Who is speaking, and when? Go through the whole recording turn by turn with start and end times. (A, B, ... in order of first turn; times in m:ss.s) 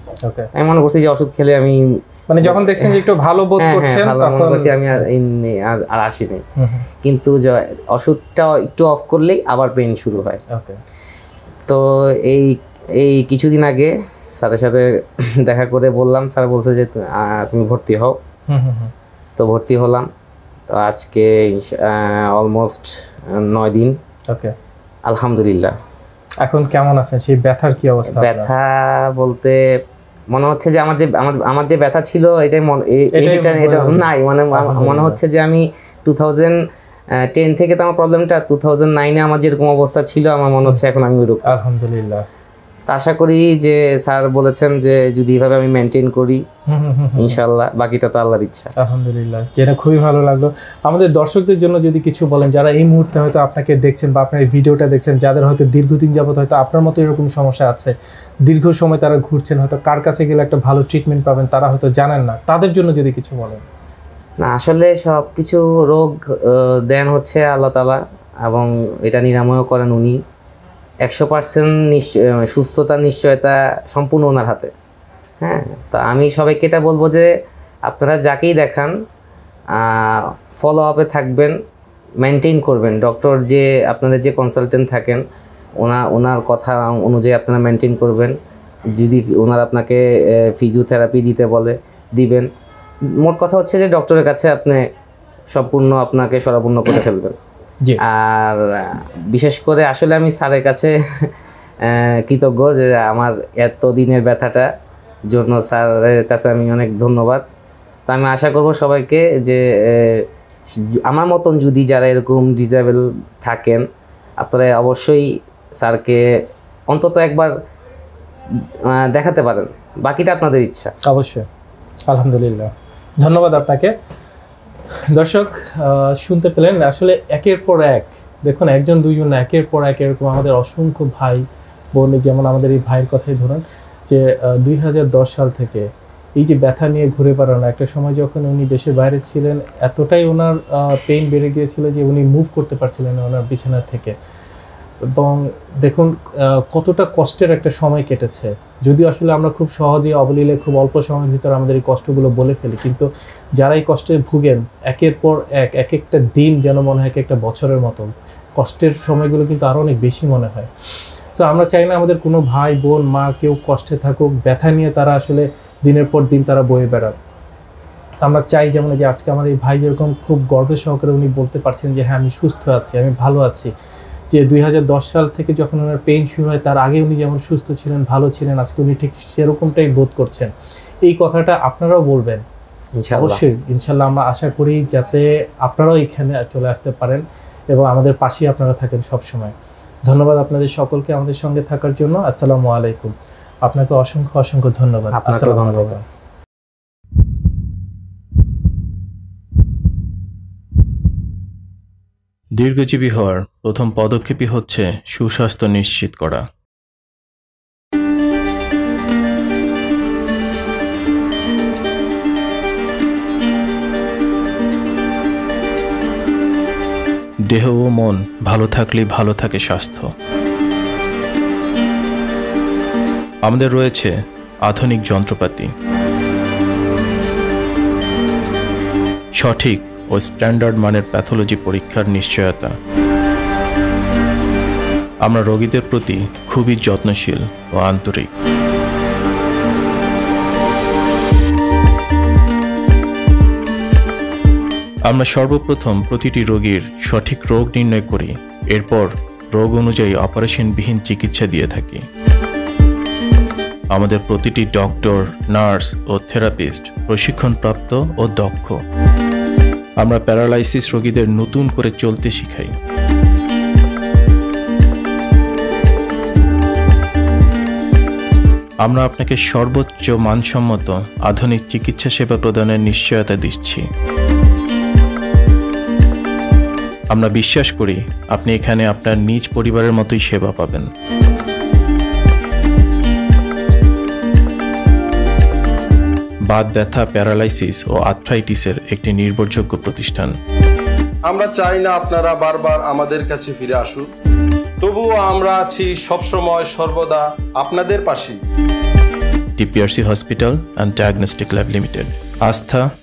0:00.2-0:00.5 A
0:00.5-0:03.0 B
0:02.3-0:05.0 A
0:03.6-0:06.4 B
0:06.6-0:06.9 A
0:07.0-0:10.4 B
0:10.5-0:10.8 A
0:11.7-0:18.2 B
0:18.5-0:18.9 A
0:19.4-0:20.1 B
0:20.7-0:24.0 B
0:24.3-0:24.5 A
0:25.0-0:25.7 B
0:26.4-0:28.5 A
0:28.1-0:29.6 B
0:30.3-0:36.6 B
0:33.1-0:35.2 A
0:37.2-0:41.4 B
0:41.5-0:42.2 A
0:42.9-0:46.4 B
0:46.7-0:47.4 A
0:47.2-0:48.7 B
0:48.8-1:03.6 A
1:04.4-1:10.2 B
1:11.0-1:14.7 B
1:15.4-1:17.3 B
1:17.9-1:18.9 B
1:19.7-1:21.5 B
1:22.2-1:25.2 B
1:25.8-1:28.4 B
1:28.9-1:32.5 B
1:33.2-1:34.9 B
1:35.5-1:37.3 B
1:38.0-1:41.3 B
1:41.8-1:44.7 B
1:45.3-1:47.4 B
1:48.1-1:53.8 B
1:54.4-1:56.3 B
1:56.9-1:57.5 B
1:58.8-2:00.9 B
2:01.1-2:01.4 A
2:02.1-2:03.9 A
2:05.1-2:11.4 A
2:11.9-2:24.1 A
2:25.1-2:33.1 A
2:33.6-2:40.7 A
2:41.3-2:47.2 A
2:48.2-2:53.7 A
2:54.3-3:00.5 A
3:01.0-3:02.4 A
3:03.0-3:03.4 B
3:03.1-3:09.5 A
3:10.1-3:13.1 A
3:13.6-3:16.0 A
3:15.1-3:16.0 B
3:22.6-3:26.4 C
3:37.5-3:40.1 C
3:43.4-3:44.1 C
3:44.6-3:45.7 C
3:49.4-3:52.7 C
3:55.2-3:58.3 C
4:05.1-4:12.0 C
4:13.9-4:18.8 C
4:20.0-4:22.7 C
4:28.8-4:33.8 C
4:37.1-4:40.9 C
4:46.5-4:50.3 C
4:51.3-4:54.1 D
4:54.8-4:58.4 D
4:59.6-5:02.8 C